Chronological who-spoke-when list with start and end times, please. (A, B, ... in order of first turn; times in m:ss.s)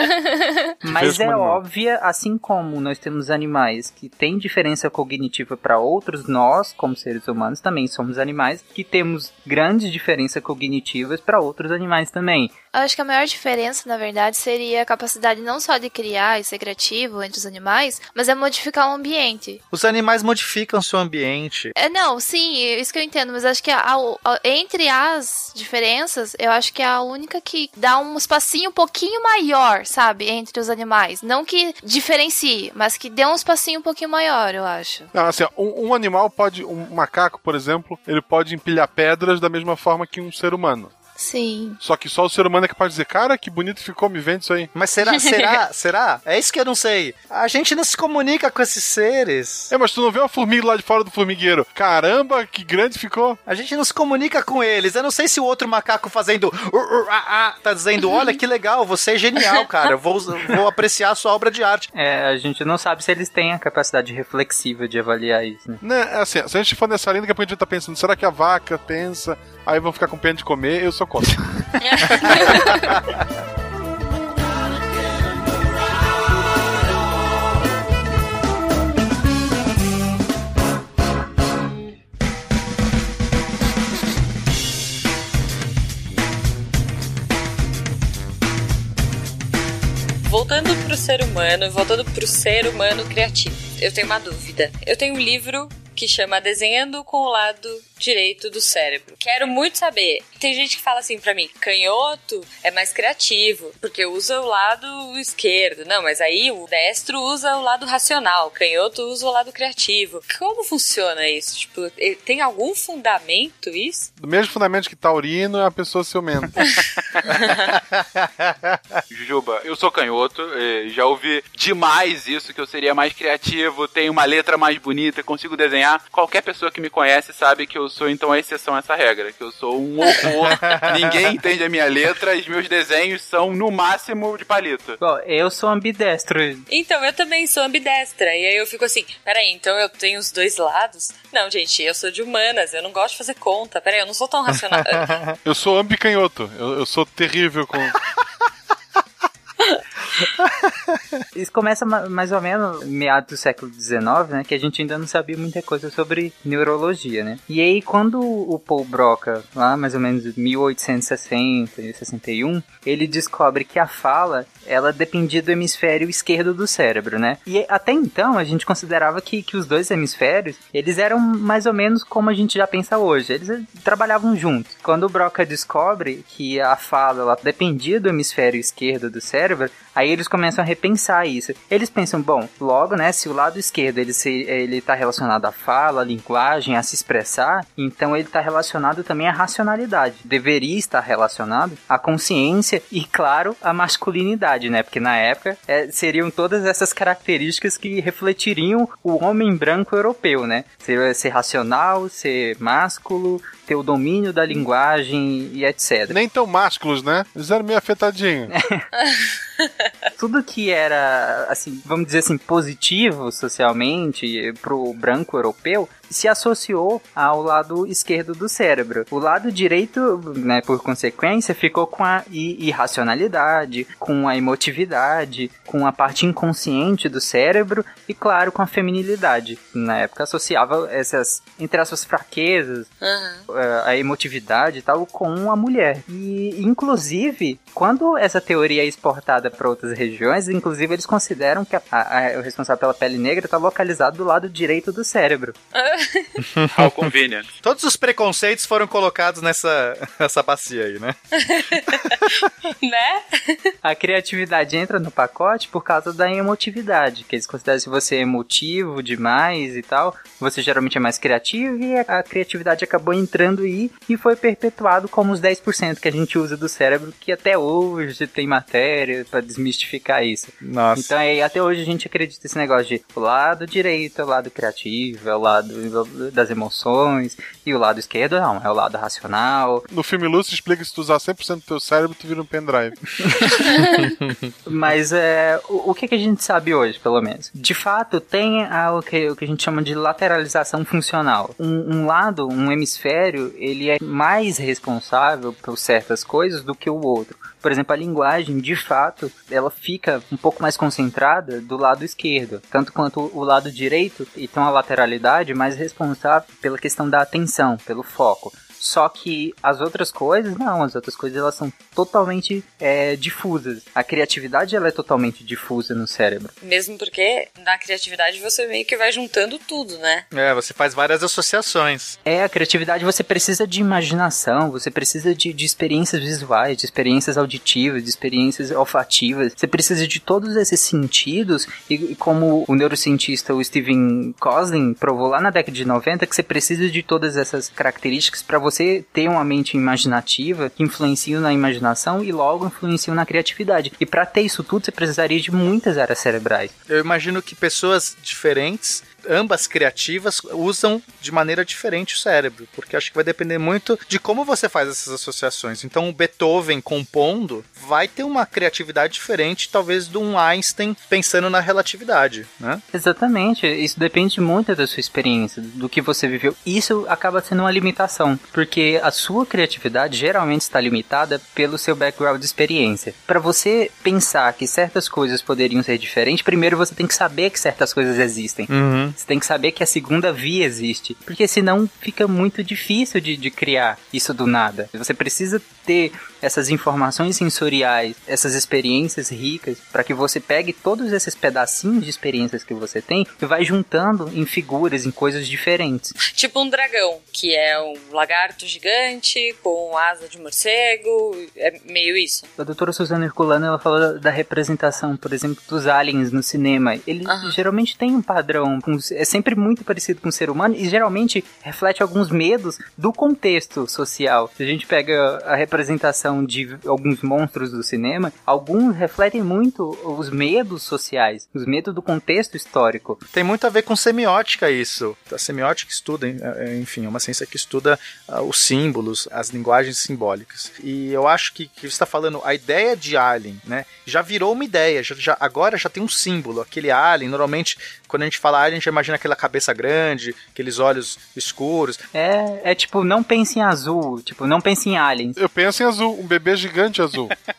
0:00.8-0:01.6 A
0:00.8-0:12.5 B
0:12.7-0:19.6 C
0:19.7-0:21.7 D
0:21.8-0:35.1 C
0:35.1-0:40.9 A
0:41.2-0:41.8 C
0:41.8-0:44.7 A
0:44.8-0:49.7 D
0:49.7-0:53.4 A
0:53.5-1:01.9 D
1:01.9-1:05.8 B
1:05.8-1:12.9 A
1:11.9-1:12.8 C
1:30.2-1:54.1 E
1:54.2-1:56.6 A
1:59.1-2:15.0 F
2:15.0-2:16.6 B
2:16.7-2:25.2 E
2:24.8-2:25.4 D
2:25.4-2:28.0 A
2:31.4-3:26.2 B
3:26.1-3:28.5 A
3:28.6-3:28.9 B
3:30.2-3:52.9 B
3:53.0-3:53.4 E
3:53.5-4:05.6 B
4:05.7-4:06.4 E
4:06.7-4:07.5 F
4:07.6-4:11.2 D
4:11.4-4:13.6 E
4:13.8-4:39.9 B
4:30.6-4:31.1 D
4:39.9-4:43.7 A
4:43.5-4:43.8 B
4:44.7-5:16.5 B
5:16.6-5:20.2 E
5:20.3-5:22.2 D
5:22.2-5:46.7 B
5:46.9-6:02.8 D
6:02.9-6:36.1 B
6:18.7-6:19.2 D
6:36.3-6:42.5 E
6:42.6-7:03.2 B
6:47.3-6:47.6 E
7:03.3-7:22.0 D
7:22.1-7:25.4 B
7:25.4-7:27.3 A